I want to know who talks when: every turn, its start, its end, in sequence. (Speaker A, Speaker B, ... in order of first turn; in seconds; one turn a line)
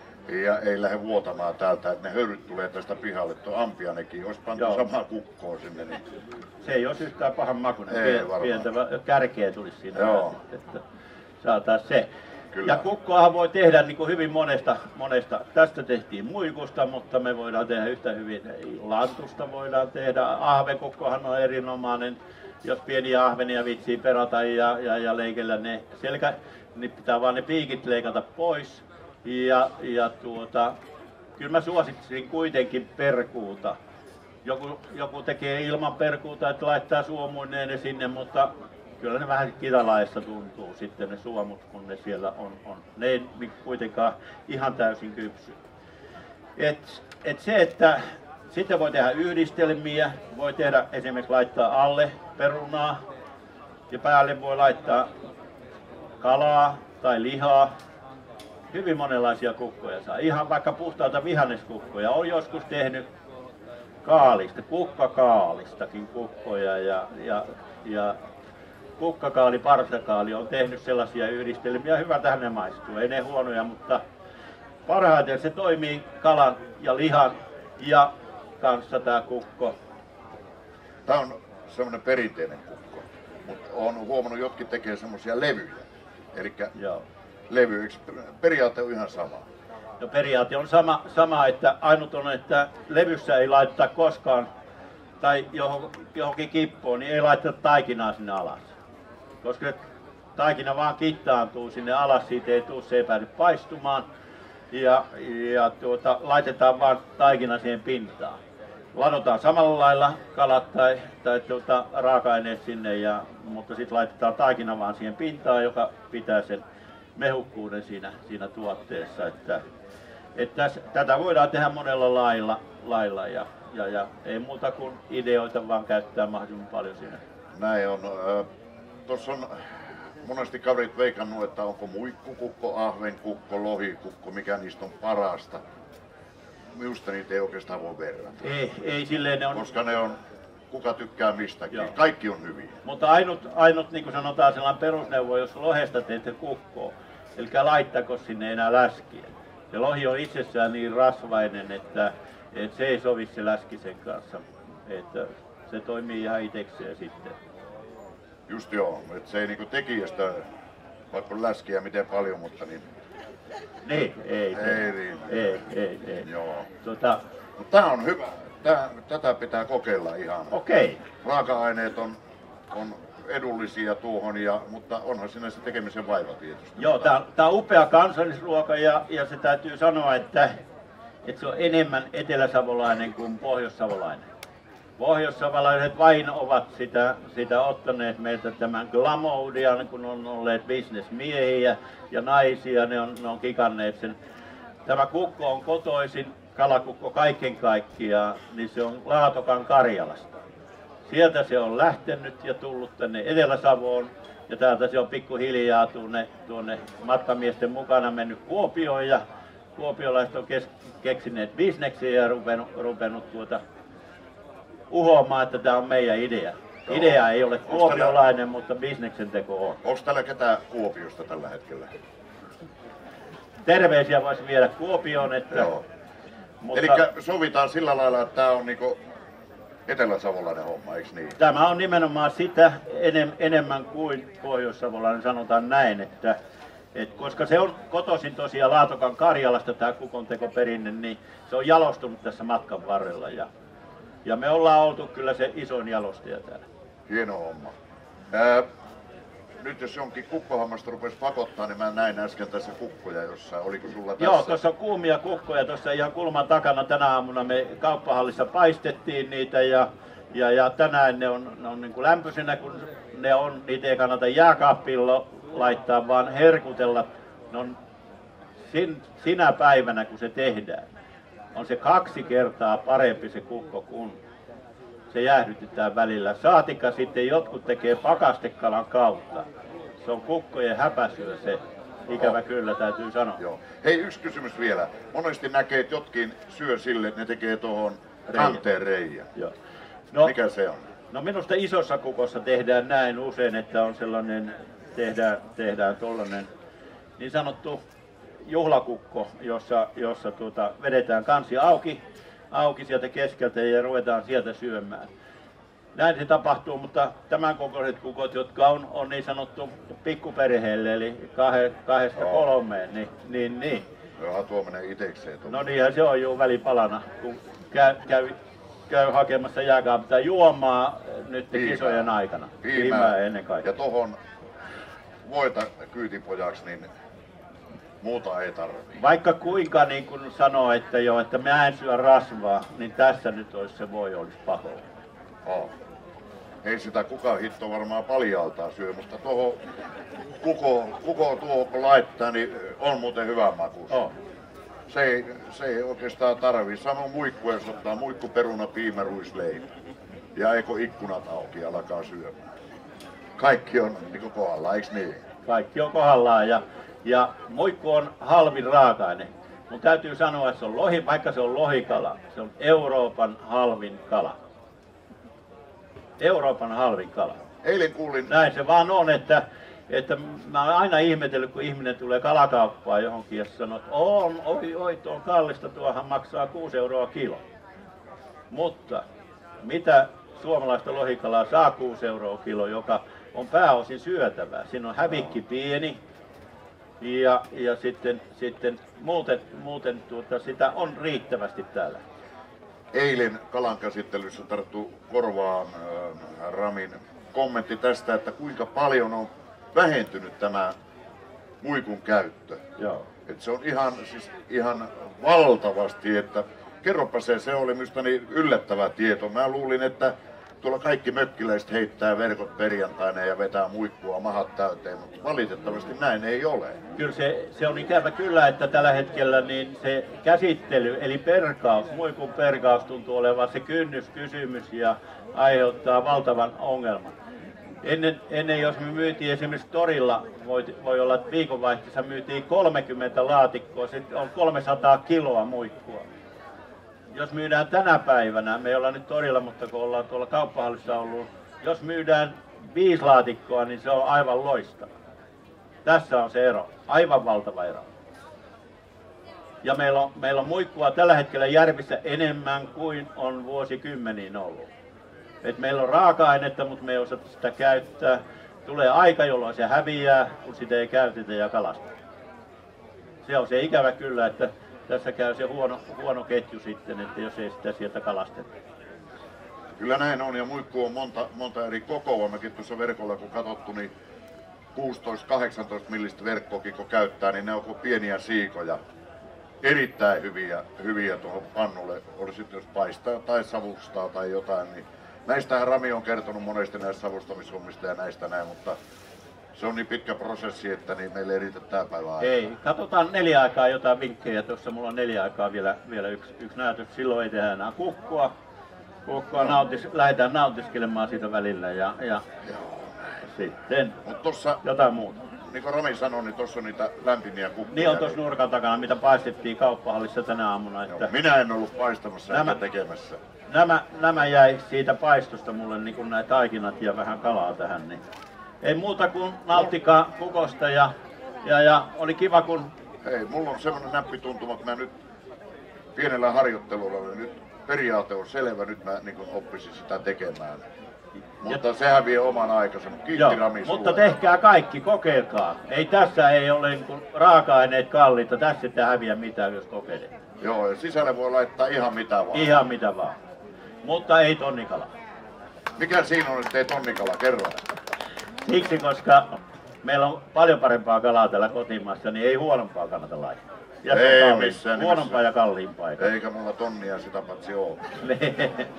Speaker A: 0.2-6.0
Speaker B: 4.6-4.8
Speaker B: 6.6-10.8
Speaker A: 7.9-8.7
Speaker A: 9.9-10.3
Speaker B: 11.4-12.1
Speaker A: 12.5-12.8
Speaker B: 12.6-30.8
Speaker B: 31.4-33.8
Speaker B: 34.4-45.6
Speaker B: 46.6-53.0
Speaker B: 53.9-55.1
Speaker B: 56.2-57.7
Speaker B: 58.7-63.0
Speaker B: 64.0-68.2
Speaker B: 69.0-74.0
Speaker B: 74.9-79.7
Speaker A: 81.0-86.7
Speaker B: 86.8-87.0
Speaker A: 87.5-89.5
Speaker B: 90.0-94.5
Speaker B: 95.2-98.7
Speaker B: 99.4-99.8
Speaker B: 100.3-104.0
Speaker B: 104.7-108.4
Speaker B: 108.9-116.6
Speaker B: 117.2-119.6
Speaker B: 120.3-127.2
Speaker A: 127.5-128.4
Speaker A: 129.1-135.6
Speaker A: 136.7-138.4
Speaker B: 138.4-139.6
Speaker A: 139.5-140.2
Speaker A: 140.7-142.8
Speaker B: 142.8-157.3
Speaker A: 158.5-160.4
Speaker A: 161.1-162.9
Speaker B: 163.8-166.3
Speaker A: 164.5-165.6
Speaker A: 166.2-166.7
Speaker B: 166.8-167.2
Speaker A: 167.6-170.6
Speaker B: 170.5-171.0
Speaker A: 171.2-172.2
Speaker A: 172.7-177.1
Speaker B: 176.8-180.5
Speaker B: 181.2-184.2
Speaker B: 185.0-194.2
Speaker B: 194.8-200.4
Speaker B: 201.1-209.2
Speaker B: 209.8-213.6
Speaker B: 214.9-219.8
Speaker A: 216.9-218.2
Speaker A: 219.8-221.9
Speaker B: 223.6-225.7
Speaker A: 225.5-225.8
Speaker B: 226.6-227.0
Speaker A: 226.7-229.0
Speaker A: 229.9-231.4
Speaker B: 231.4-236.4
Speaker B: 236.9-243.5
Speaker B: 244.2-246.6
Speaker A: 247.1-247.8
Speaker A: 248.3-248.7
Speaker A: 249.6-254.6
Speaker B: 254.2-267.8
Speaker B: 268.6-270.9
Speaker B: 271.5-274.2
Speaker B: 275.1-279.5
Speaker B: 280.0-283.4
Speaker A: 282.1-282.4
Speaker A: 283.4-289.3
Speaker B: 288.3-288.6
Speaker A: 290.2-290.8
Speaker B: 291.1-296.5
Speaker B: 297.2-297.8
Speaker B: 298.4-305.1
Speaker B: 305.9-313.9
Speaker A: 312.2-312.4
Speaker A: 314.2-315.7
Speaker B: 315.5-318.4
Speaker B: 318.9-323.6
Speaker A: 321.5-322.0
Speaker A: 322.6-324.2
Speaker A: 325.2-326.9
Speaker A: 328.0-329.0
Speaker B: 328.9-334.8
Speaker A: 335.4-335.7
Speaker A: 336.6-339.6
Speaker A: 340.4-344.0
Speaker A: 344.9-349.6
Speaker A: 350.3-352.4
Speaker A: 353.4-355.2
Speaker B: 355.4-364.4
Speaker B: 366.2-367.4
Speaker A: 367.6-368.3
Speaker B: 368.3-377.4
Speaker B: 378.5-379.0
Speaker B: 379.6-386.0
Speaker B: 387.0-392.0
Speaker A: 392.9-400.7
Speaker A: 401.6-402.6
Speaker B: 402.8-403.1
Speaker A: 403.2-416.8
Speaker B: 416.9-427.1
Speaker B: 427.8-436.0
Speaker B: 437.1-444.9
Speaker B: 445.8-447.9
Speaker B: 449.6-454.7
Speaker B: 455.4-461.9
Speaker B: 463.2-468.5
Speaker A: 469.8-473.9
Speaker A: 474.7-478.8
Speaker A: 479.6-488.8
Speaker A: 489.5-492.3
Speaker B: 492.2-498.3
Speaker B: 499.1-502.2
Speaker A: 502.4-503.2
Speaker B: 503.2-504.0
Speaker A: 504.0-504.6
Speaker B: 504.6-505.2
Speaker A: 505.4-508.2
Speaker B: 507.7-511.1
Speaker A: 510.9-513.2
Speaker B: 512.3-512.6
Speaker B: 513.5-518.0
Speaker B: 518.6-520.9
Speaker B: 521.4-522.7
Speaker A: 523.0-524.9
Speaker A: 525.9-530.6
Speaker A: 531.4-534.1
Speaker B: 533.1-540.1
Speaker A: 540.4-542.5
Speaker B: 542.3-543.2
Speaker B: 543.8-544.9
Speaker A: 545.8-547.6
Speaker B: 548.4-556.1
Speaker A: 553.9-555.2
Speaker A: 556.0-557.8
Speaker B: 557.9-558.7